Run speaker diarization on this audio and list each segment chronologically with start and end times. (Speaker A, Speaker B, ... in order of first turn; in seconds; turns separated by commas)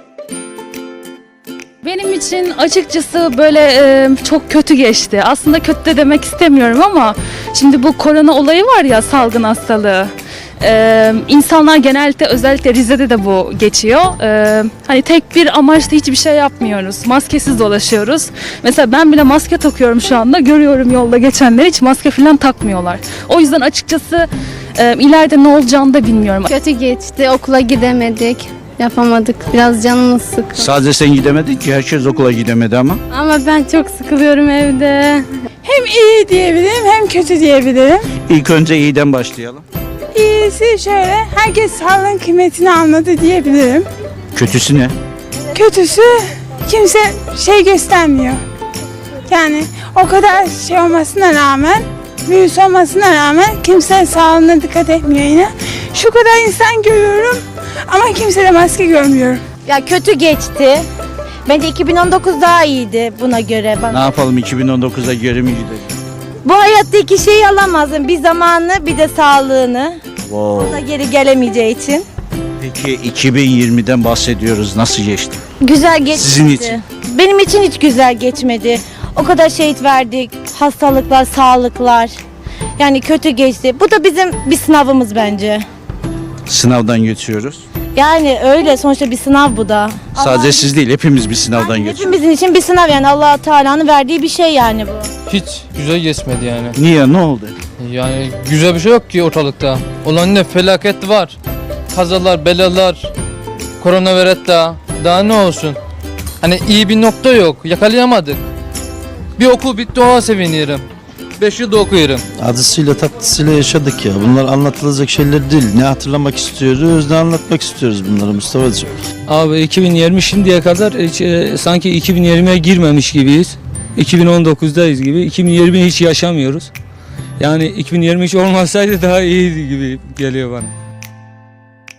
Speaker A: 1.8-24.2, Speaker A: 24.8-26.5, Speaker B: 26.5-30.7, Speaker C: 30.5-33.0, Speaker B: 33.1-35.3, Speaker D: 35.6-38.0, Speaker C: 38.3-39.6, Speaker D: 40.1-43.8, Speaker C: 44.3-44.9, Speaker D: 45.5-48.4, Speaker D: 49.3-59.4, Speaker E: 59.6-60.8, Speaker E: 61.5-64.0, Speaker C: 63.9-65.9, Speaker E: 66.4-70.0, Speaker C: 70.2-70.8, Speaker E: 70.6-72.0, Speaker C: 72.6-75.4, Speaker E: 75.6-82.1, Speaker C: 76.2-76.8, Speaker E: 82.8-85.7, Speaker C: 86.5-87.6, Speaker E: 87.9-90.7, Speaker C: 90.1-92.1, Speaker E: 91.6-95.1, Speaker F: 95.3-96.7, Speaker C: 96.7-97.5, Speaker F: 97.8-101.4, Speaker F: 101.9-103.1, Speaker F: 103.8-105.8, Speaker F: 106.4-108.4, Speaker F: 109.4-110.8, Speaker F: 111.4-112.2, Speaker G: 112.3-118.9, Speaker H: 119.3-126.7, Speaker H: 127.4-130.7